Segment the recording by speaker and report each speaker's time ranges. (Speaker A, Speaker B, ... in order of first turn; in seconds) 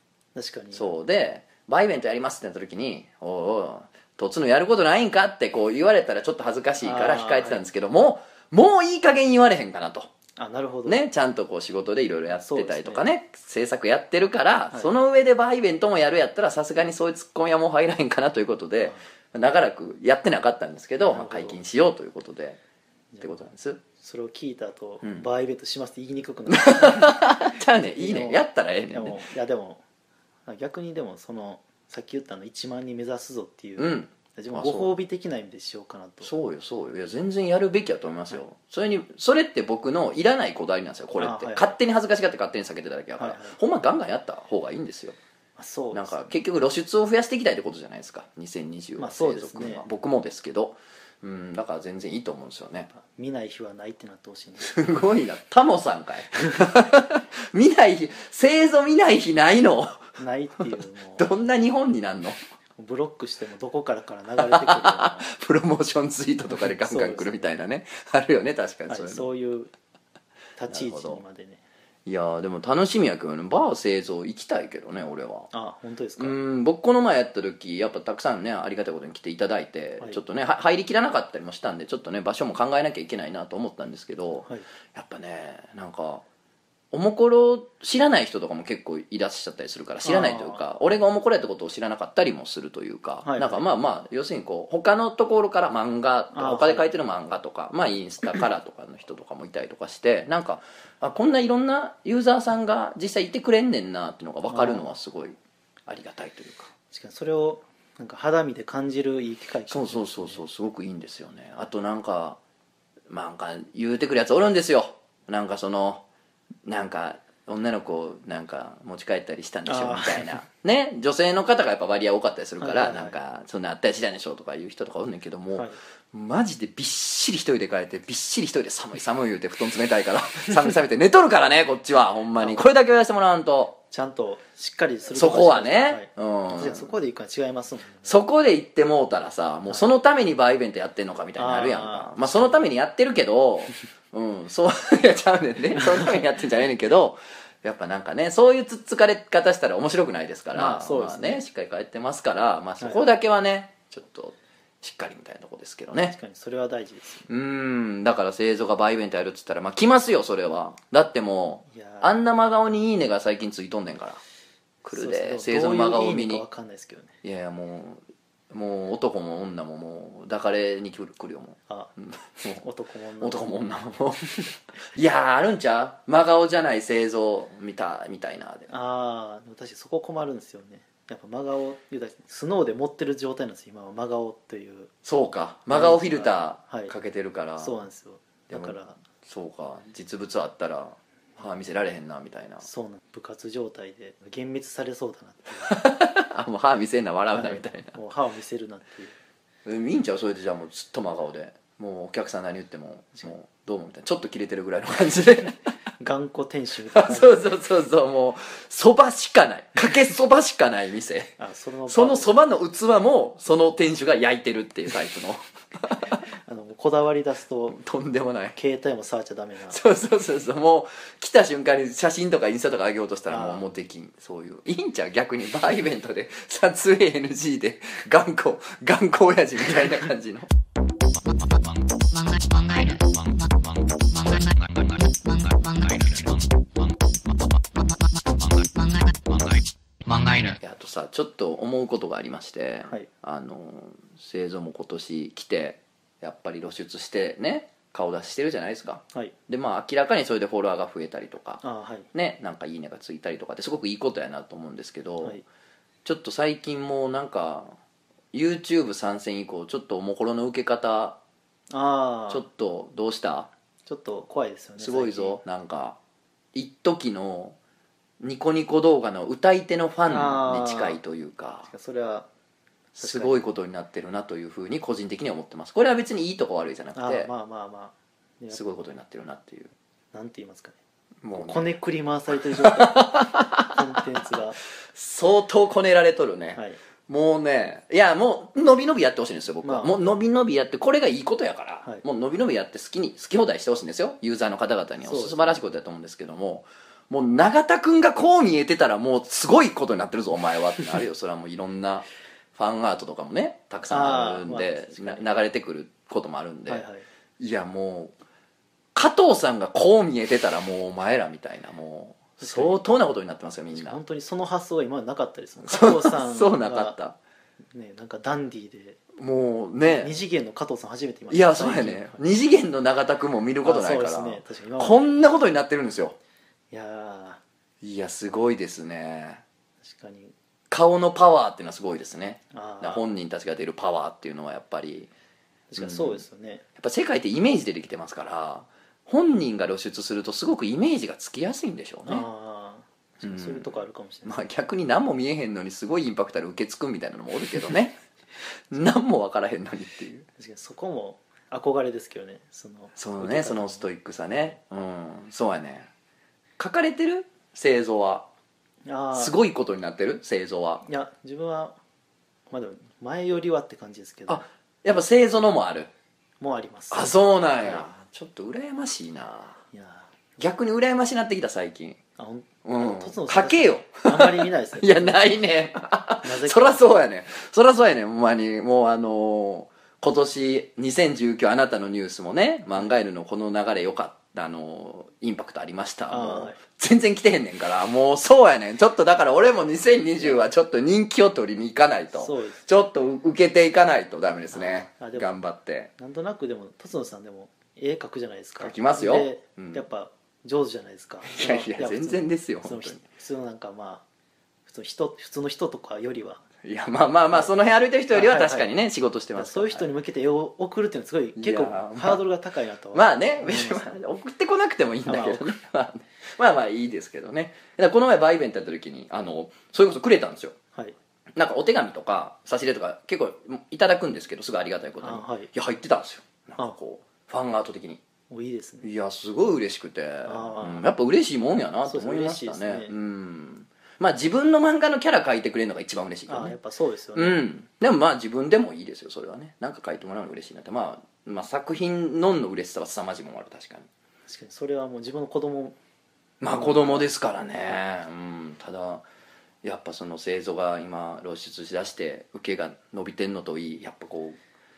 Speaker A: 0.3-0.9, 6.8-7.7, 10.4-11.0, 12.4-13.1, 21.0-21.6, 23.1-29.8, 30.4-36.3, 41.2-41.7, 43.2-43.6, 45.6-46.3, 49.0-49.9, 52.9-54.7, 60.2-61.3, 62.8-65.3, 66.5-67.5, 68.9-69.7, 70.6-71.6, 75.5-76.4, 90.0-90.6, 93.2-93.6, 96.3-96.9, 104.5-104.9, 106.9-110.4, 119.7-120.4, 122.6-123.2, 132.4-132.6, 133.9-138.1, 141.4-142.7, 150.5-151.4, 152.8-153.1, 155.9-157.3, 161.7-162.1, 164.9-167.1, 172.6-173.5, 178.7-184.9, 185.7-186.9, 187.6-189.0, 192.6-195.7, 197.3-199.1, 206.0-207.6, 211.4-212.3, 216.3-217.8, 218.6-219.8, 223.3-223.6, 251.6-252.1, 261.7-262.4, 263.9-265.4, 270.1-271.0, 271.6-272.3, 272.9-273.4, 276.9-278.6, 280.1-280.8, 281.3-284.6, 289.6-290.0, 295.0-295.6, 303.9-305.2, 306.7-307.1, 312.4-312.8, 313.7-317.0, 317.7-319.0, 319.8-322.2, 323.6-325.0, 326.7-327.4, 329.8-330.3, 332.5-333.1, 335.7-336.6, 342.1-344.4, 350.4-353.9, 358.9-359.4, 360.9-361.8, 362.5-364.4, 366.4-367.9, 369.7-370.1, 372.2-375.2, 376.2-376.8, 386.1-386.6, 392.1-392.7, 394.5-395.3, 396.0-404.0, 404.6-406.4, 408.1-408.7, 409.4-414.0, 415.1-415.5, 425.0-425.5, 428.3-428.9, 430.2-430.9, 431.9-432.9, 436.3-437.4, 444.3-445.8, 446.5-447.1
Speaker B: 0.7-10.1, 10.9-22.6, 23.2-23.8, 26.5-29.2, 33.8-34.9, 36.2-45.2, 45.9-52.9, 54.6-60.1, 61.2-62.4, 64.4-69.3, 70.7-71.2, 72.1-75.5, 76.2-86.2, 86.9-106.7, 109.7-112.4, 113.1-116.0, 116.6-133.8, 135.1-136.9, 138.0-156.2, 157.3-164.2, 164.8-166.4, 167.2-172.6, 173.2-178.7, 185.1-187.8, 188.5-192.7, 195.6-197.9, 199.6-205.7, 206.9-211.3, 211.9-216.2, 217.7-218.6, 219.7-230.5, 240.6-255.4, 256.1-257.8, 258.3-261.2, 262.3-263.5, 264.8-266.0, 266.5-267.6, 268.2-271.7, 273.0-277.3, 278.5-279.7, 281.2-281.7, 282.6-283.8, 284.9-306.9, 307.4-308.1, 308.9-314.0, 315.6-317.2, 319.2-320.1, 321.3-326.1, 327.8-329.4, 330.7-335.1, 335.8-336.2, 336.8-342.2, 343.2-348.0, 348.7-350.3, 352.9-355.9, 356.6-358.3, 359.1-360.9, 364.3-365.9, 366.9-369.6, 370.4-372.0, 372.6-395.9, 398.6-399.8, 401.2-403.0, 406.6-409.9, 411.4-412.2, 412.9-420.6, 421.4-428.0, 428.8-436.6, 437.1-443.9, 446.4-449.1, 449.6-454.4
Speaker C: 232.1-236.4, 238.4-240.6